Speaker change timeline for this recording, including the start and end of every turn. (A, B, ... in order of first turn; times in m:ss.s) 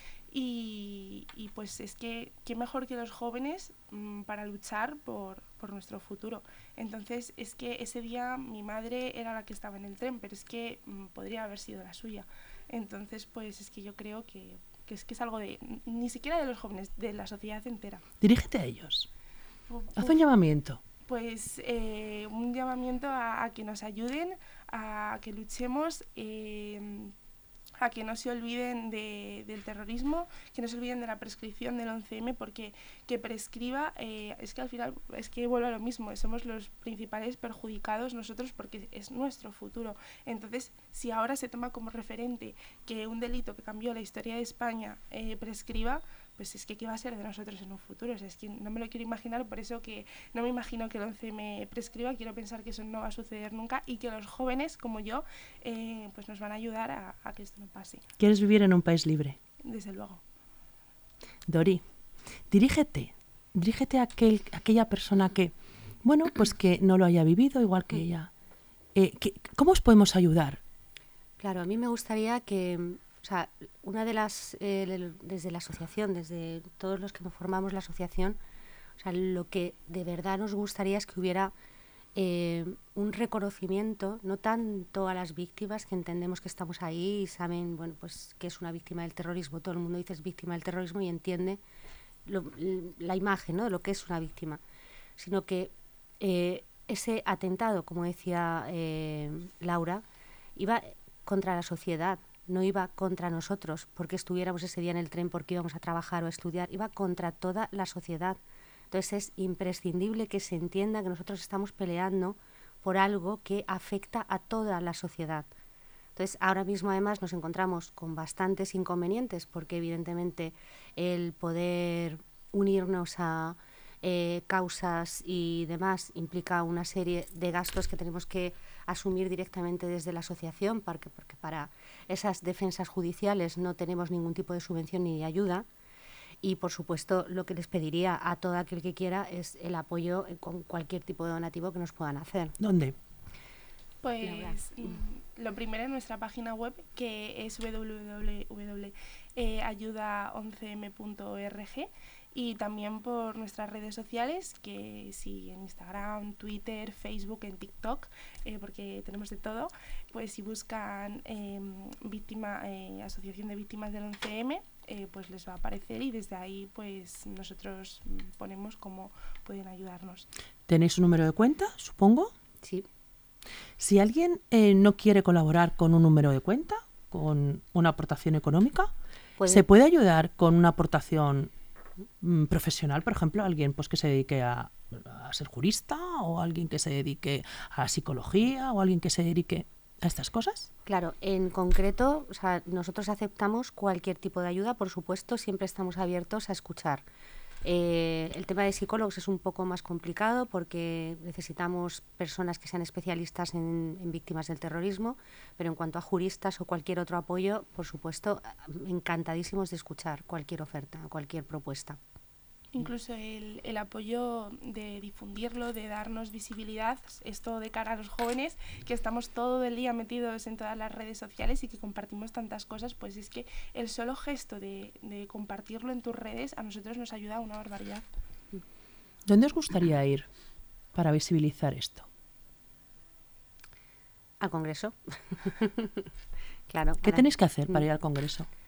0:00.3-0:18.0 A
0:18.2-0:19.1 B
0:19.7-0:20.2 A
0:20.0-0:20.8 B
0:21.0-0:27.1 A
0:27.8-0:58.0 A
0:58.2-0:59.4 B
0:59.6-1:00.2 A
1:01.5-1:01.8 B
1:02.5-1:08.3 B
1:09.0-1:10.6 B
1:11.4-1:18.4 C
1:19.0-1:21.5 C
1:22.2-1:31.6 C
1:32.2-1:34.6 C
1:35.2-1:40.0 C
1:40.6-1:48.4 C
1:48.9-1:55.5 C
1:56.2-2:15.7 C
2:16.4-2:22.6 C
2:22.6-2:23.0 B
2:24.0-2:50.3 A
2:24.2-2:25.0 C
2:50.7-2:52.3 B
2:52.6-2:52.9 C
2:53.8-2:58.9 B
2:59.4-2:59.6 C
2:59.5-3:01.5 B
3:02.2-3:10.7 B
3:10.9-3:17.0 C
3:17.6-3:32.0 C
3:32.7-3:48.1 A
3:49.3-3:50.3 B
3:50.9-3:52.1 B
3:54.4-3:56.1 C
3:56.7-3:57.8 C
3:57.0-3:58.5 B